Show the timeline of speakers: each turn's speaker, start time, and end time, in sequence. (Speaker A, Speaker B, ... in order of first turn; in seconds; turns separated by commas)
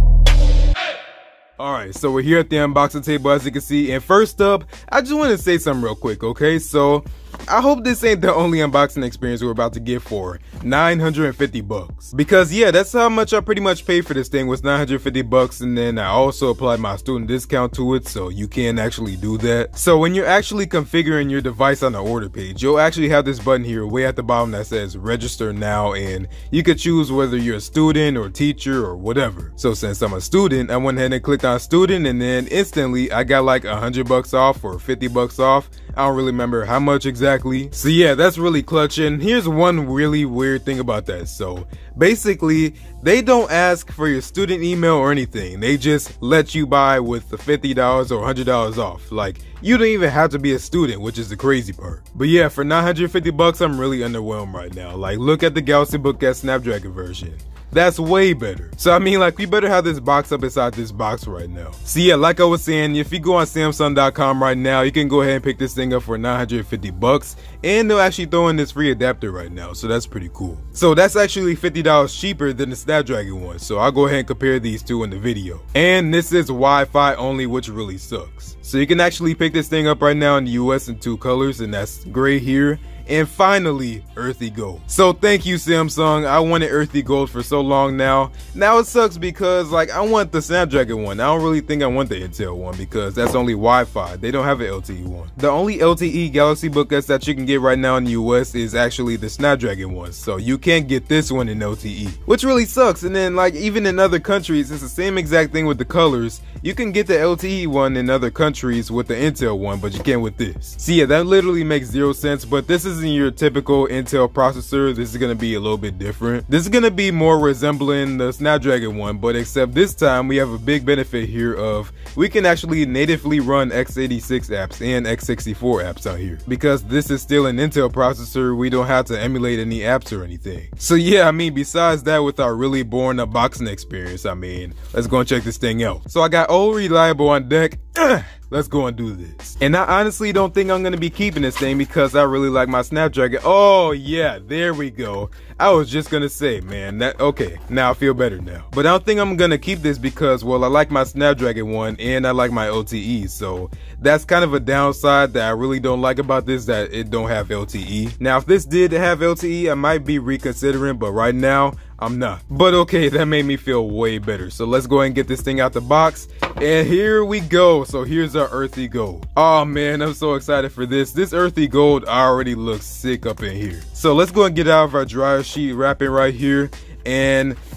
Speaker A: 1.6-177.6